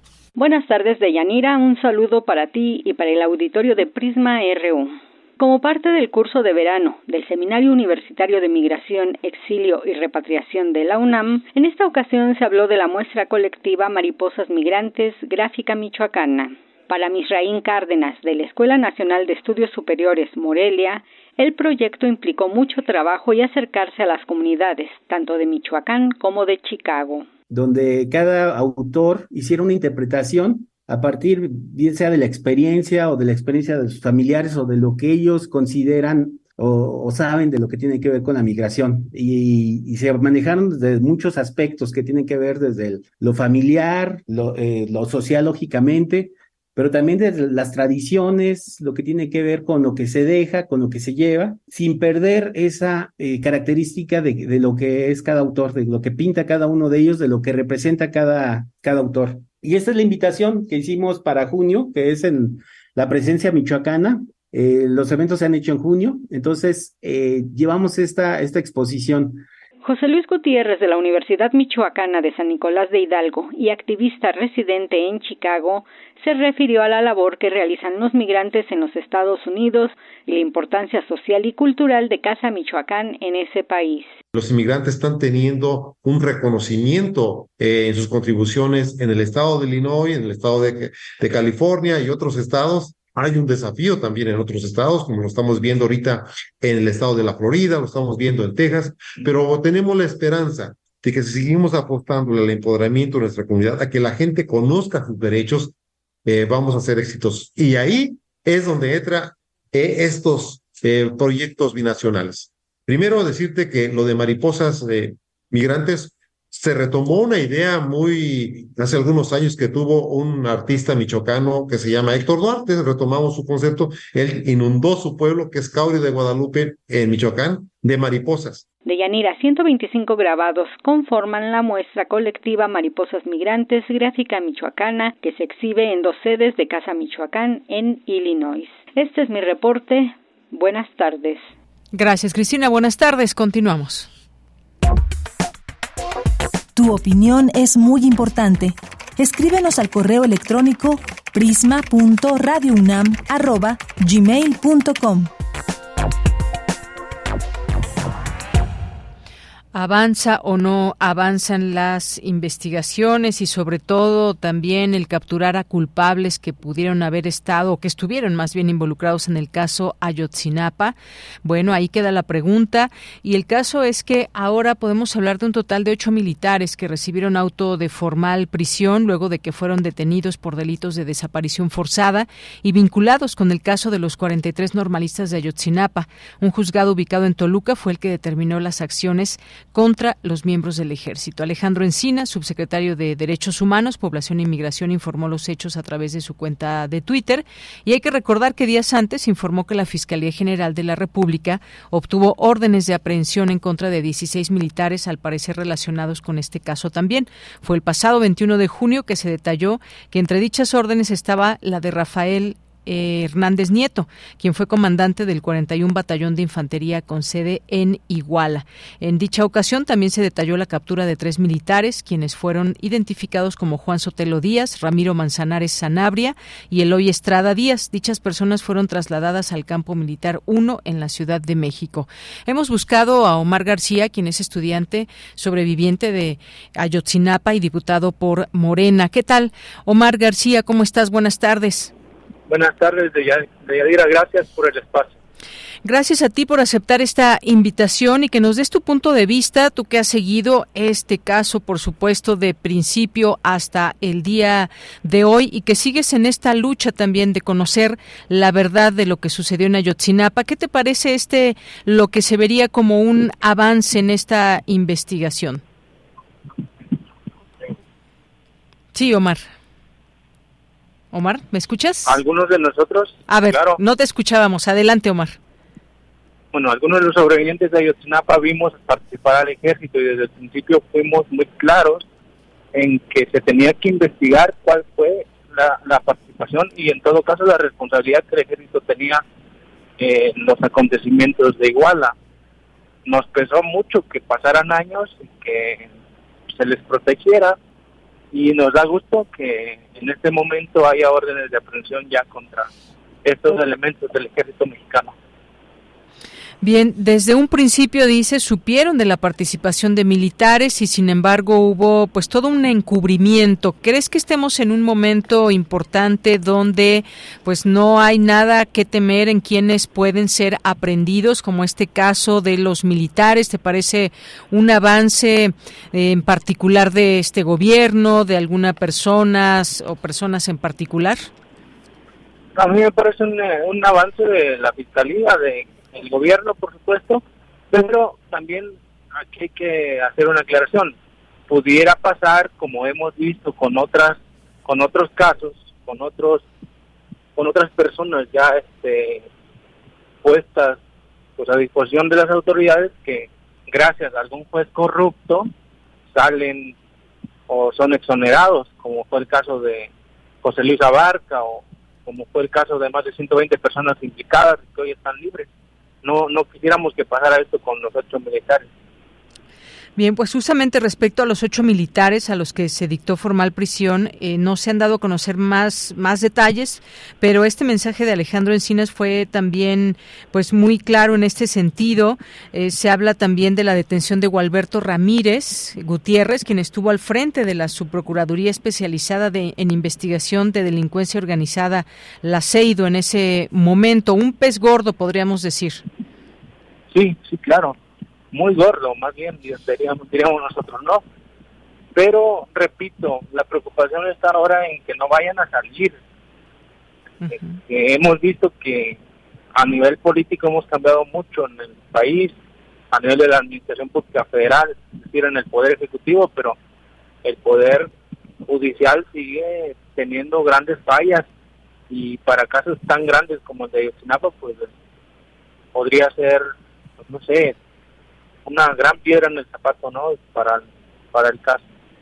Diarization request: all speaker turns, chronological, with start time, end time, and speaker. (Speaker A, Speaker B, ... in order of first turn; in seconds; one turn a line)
Speaker A: 0.4-27.3
Speaker B: 27.5-69.5
Speaker A: 69.8-84.2
Speaker C: 84.3-105.7
Speaker C: 106.2-128.7
Speaker A: 128.8-141.4
Speaker D: 141.9-144.1
Speaker E: 146.8-155.3
Speaker D: 159.7-241.9
Speaker F: 242.5-245.2
Speaker D: 245.8-265.6
Speaker D: 268.9-269.5
Speaker D: 271.1-272.2
Speaker F: 272.1-273.8
Speaker D: 273.3-275.4
Speaker F: 276.5-282.1
Speaker F: 282.7-289.2
Speaker F: 290.0-292.1
Speaker F: 293.1-295.9
Speaker F: 296.5-297.6
Speaker F: 298.3-302.7
Speaker F: 303.2-305.1
Speaker D: 306.6-331.3
Speaker F: 332.6-341.0
Speaker F: 341.5-346.4
Speaker F: 347.4-349.3
Speaker F: 350.2-350.8
Speaker F: 351.4-355.5
Speaker F: 356.1-356.8
Speaker F: 357.5-359.9
Speaker F: 360.4-365.5
Speaker F: 366.0-368.7
Speaker D: 370.0-395.8
Speaker F: 396.9-397.8
Speaker F: 398.3-401.0
Speaker F: 401.9-406.0
Speaker D: 407.2-407.6
Speaker F: 407.7-409.0
Speaker F: 409.6-412.4
Speaker F: 412.9-416.6
Speaker F: 417.2-417.9
Speaker F: 418.4-421.3
Speaker F: 421.9-424.7
Speaker F: 425.8-426.4
Speaker F: 427.1-427.6
Speaker F: 428.4-431.6